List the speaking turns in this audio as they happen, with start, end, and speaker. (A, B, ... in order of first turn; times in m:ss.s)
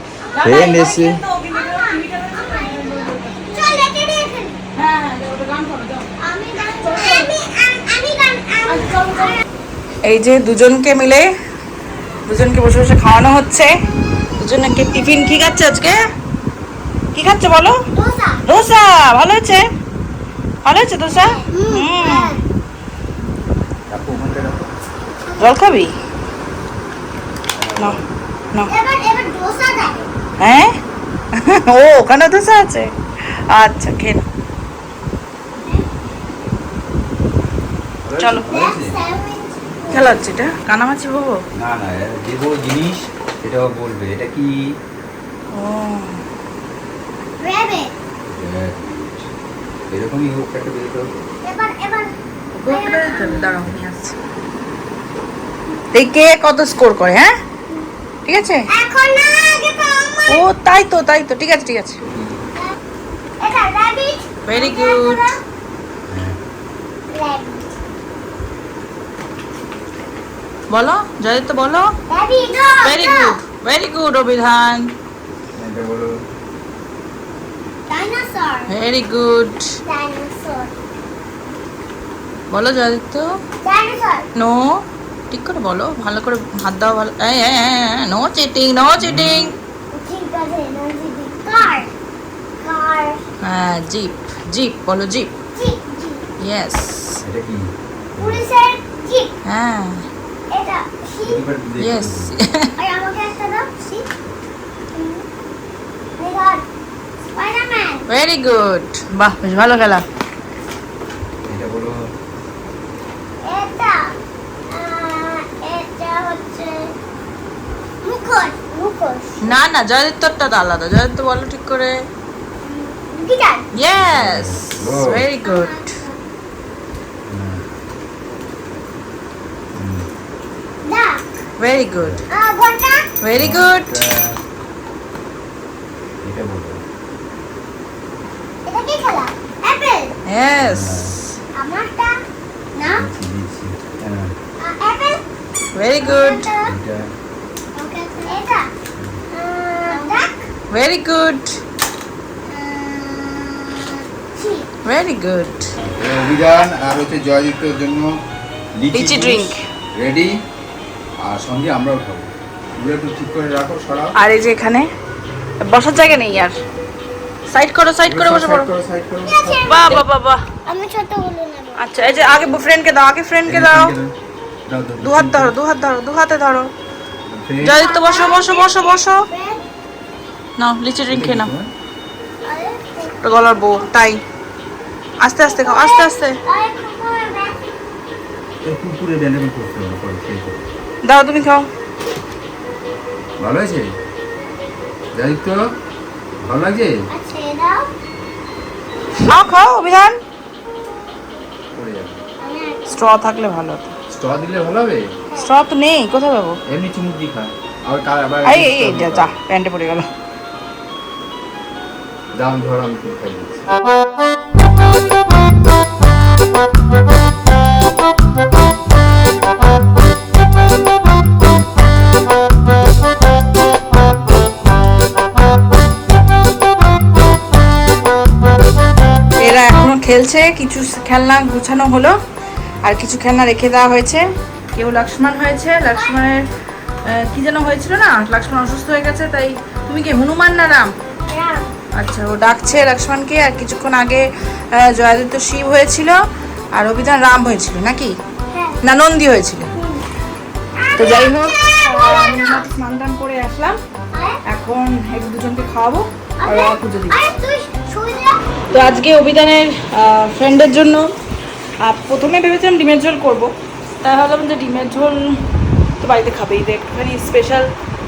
0:00.2-0:04.6 A
0:00.3-0:03.8 B
0:00.4-0:01.2 C
0:04.8-0:06.1 B
0:06.2-0:09.1 A
0:06.7-0:07.3 B
0:08.6-0:09.4 B
0:10.0-0:11.3 B
0:12.3-0:13.7 B
0:14.4-0:16.0 B
0:17.2-0:17.8 B
0:18.0-0:18.4 A
0:18.5-0:19.6 B
0:20.6-0:22.4 B
0:21.1-0:22.4 A
0:23.9-0:24.7 C
0:25.4-0:25.9 B
0:27.6-0:28.0 C
0:28.6-0:30.1 A
0:30.4-0:30.8 B
0:31.4-0:32.9 B
0:33.5-0:34.3 B
0:35.6-0:35.9 A
0:38.0-0:39.0 C
0:38.2-0:38.5 B
0:38.5-0:40.1 A
0:39.9-0:41.4 B
0:41.6-0:44.5 C
0:45.5-0:46.2 B
0:47.4-0:47.9 A
0:48.3-0:49.3 C
0:49.9-0:51.2 C
0:51.4-0:52.1 A
0:52.5-0:54.2 B
0:52.7-0:53.5 A
0:55.9-0:57.3 B
0:58.3-0:58.7 B
0:58.7-1:00.5 A
1:00.3-1:02.0 B
1:02.1-1:02.4 C
1:03.4-1:05.4 A
1:04.5-1:05.3 B
1:06.1-1:06.4 C
1:07.1-1:07.6 A
1:10.7-1:11.9 B
1:12.1-1:13.4 A
1:12.8-1:14.9 B
1:15.6-1:16.1 C
1:17.9-1:18.7 A
1:18.7-1:19.8 B
1:19.9-1:20.7 A
1:22.5-1:23.4 B
1:23.6-1:24.3 A
1:24.4-1:29.5 B
1:29.0-1:29.5 C
1:29.9-1:31.9 A
1:32.6-1:33.2 A
1:33.4-1:35.3 B
1:35.6-1:36.2 A
1:36.4-1:37.2 B
1:37.2-1:38.4 C
1:38.2-1:39.3 A
1:39.4-1:40.0 B
1:40.5-1:41.5 A
1:41.2-1:42.3 C
1:41.8-1:42.7 B
1:42.8-1:44.1 A
1:44.9-1:45.2 A
1:46.2-1:46.6 A
1:47.3-1:48.1 A
1:48.1-1:50.0 B
1:51.4-1:51.9 C
1:53.4-1:54.2 A
1:54.7-1:56.9 A
1:58.0-1:59.4 A
1:59.4-2:02.0 B
2:02.6-2:03.6 A
2:03.7-2:05.9 B
2:04.0-2:05.2 C
2:05.4-2:06.1 A
2:07.3-2:07.6 C
2:09.8-2:10.1 C
2:10.8-2:11.2 A
2:11.6-2:12.2 B
2:12.0-2:12.2 C
2:12.3-2:13.1 A
2:13.2-2:13.9 B
2:13.3-2:14.4 C
2:16.2-2:16.8 C
2:18.7-2:20.1 A
2:20.3-2:21.4 B
2:20.6-2:21.2 C
2:21.6-2:22.2 A
2:22.8-2:23.1 A
2:22.8-2:24.3 C
2:24.6-2:25.2 A
2:25.7-2:26.5 B
2:26.0-2:26.8 A
2:26.6-2:27.1 C
2:27.8-2:28.7 A
2:29.3-2:30.4 A
2:30.7-2:31.6 B
2:32.5-2:34.7 A
2:34.8-2:35.7 B
2:35.8-2:38.1 C
2:38.8-2:40.3 C
2:38.9-2:39.6 B
2:41.2-2:44.1 C
2:44.2-2:44.9 B
2:45.6-2:46.6 B
2:47.5-2:48.7 B
2:48.0-2:50.0 C
2:49.2-2:50.0 A
2:49.7-2:50.4 B
2:50.7-2:52.0 A
2:51.8-2:53.9 B
2:53.4-2:54.1 C
2:54.7-2:55.5 C
2:55.0-2:56.7 B
2:57.3-2:57.8 C
2:57.6-2:59.3 B
2:57.8-2:59.6 A
3:00.6-3:01.5 B
3:01.1-3:01.7 C
3:02.4-3:03.2 A
3:03.2-3:04.2 B
3:05.2-3:06.4 B
3:05.4-3:07.6 A
3:08.6-3:10.6 C
3:11.0-3:11.7 B
3:13.4-3:13.9 C
3:15.1-3:15.6 C
3:16.4-3:16.9 C
3:17.1-3:17.9 A
3:19.2-3:20.2 B
3:21.7-3:22.2 C
3:22.4-3:23.0 A
3:22.9-3:23.9 B
3:24.1-3:25.0 C
3:25.4-3:26.6 B
3:26.7-3:29.3 C
3:28.4-3:30.1 B
3:32.3-3:33.7 C
3:49.4-3:52.2 B
3:52.8-3:56.4 B
3:57.1-4:00.9 B
4:01.3-4:01.7 A
4:01.9-4:06.2 B
4:06.7-4:08.2 B
4:08.5-4:08.8 A
4:08.8-4:09.8 B
4:09.8-4:10.0 A
4:10.8-4:12.7 A
4:11.0-4:13.8 B
4:14.1-4:14.4 A
4:14.5-4:17.2 B
4:16.4-4:19.1 A
4:18.7-4:21.1 B
4:21.8-4:25.3 B
4:26.0-4:27.7 B